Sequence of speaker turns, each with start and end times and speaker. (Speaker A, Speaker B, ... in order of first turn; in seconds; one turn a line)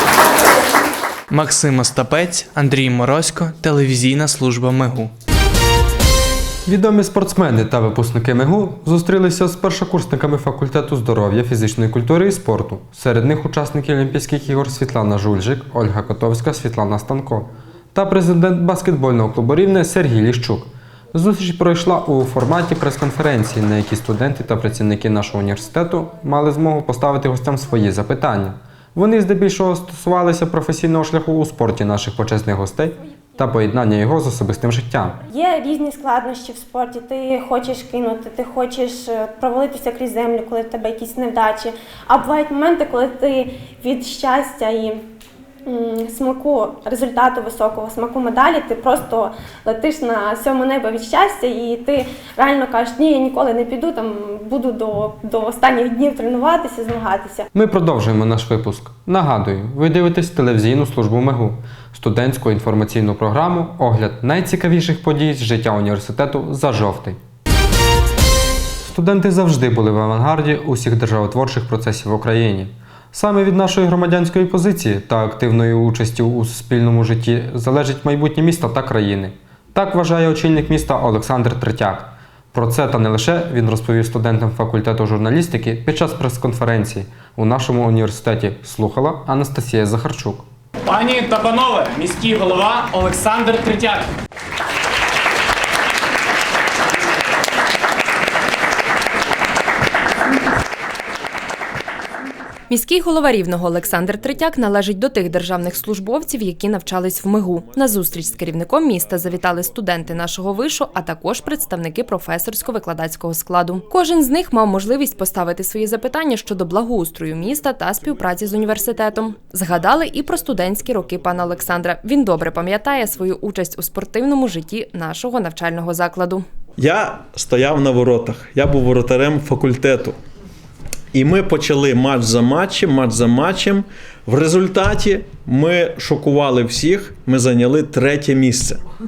Speaker A: 1.3-5.1
Speaker B: 6.7-35.2
Speaker C: 35.3-45.0
Speaker C: 45.7-57.4
Speaker B: 57.5-67.2
Speaker B: 68.8-90.5
Speaker D: 90.9-94.0
Speaker E: 102.7-126.4
Speaker F: 126.8-130.1
Speaker F: 131.1-138.8